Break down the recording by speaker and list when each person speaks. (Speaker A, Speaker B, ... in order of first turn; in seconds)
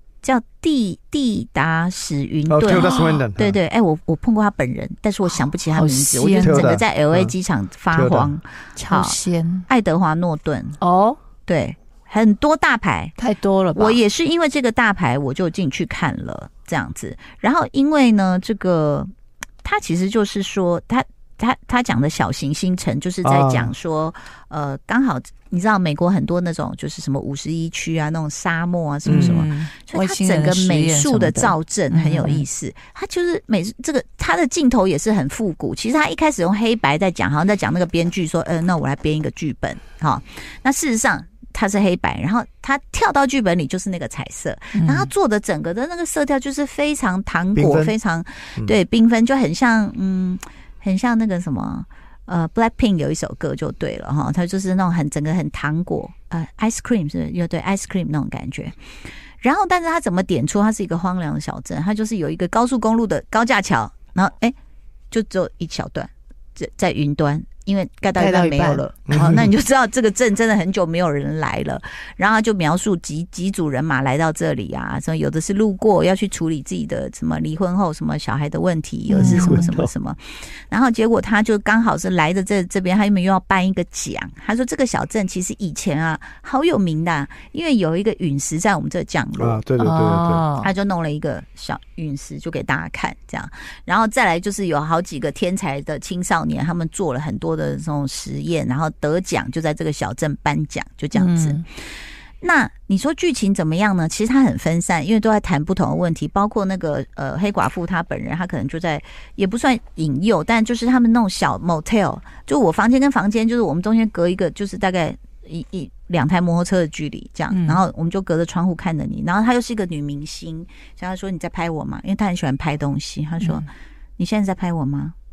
Speaker A: 0.2-10.8, 11.4-13.1, 13.8-19.1, 19.6-58.8, 59.4-64.5, 65.1-89.6, 90.6-123.7, 124.2-125.2
Speaker B: 2.5-3.6, 6.4-7.3, 7.9-8.3, 23.2-23.7, 29.1-29.4, 47.5-48.0, 69.1-69.5, 79.2-79.9, 89.4-90.4
Speaker C: 2.7-3.2, 5.7-6.8, 8.8-9.7, 10.8-11.2, 13.2-14.0, 29.1-32.5, 44.8-45.1, 68.2-68.9, 79.1-79.7, 89.8-90.7, 101.2-101.7, 117.5-117.8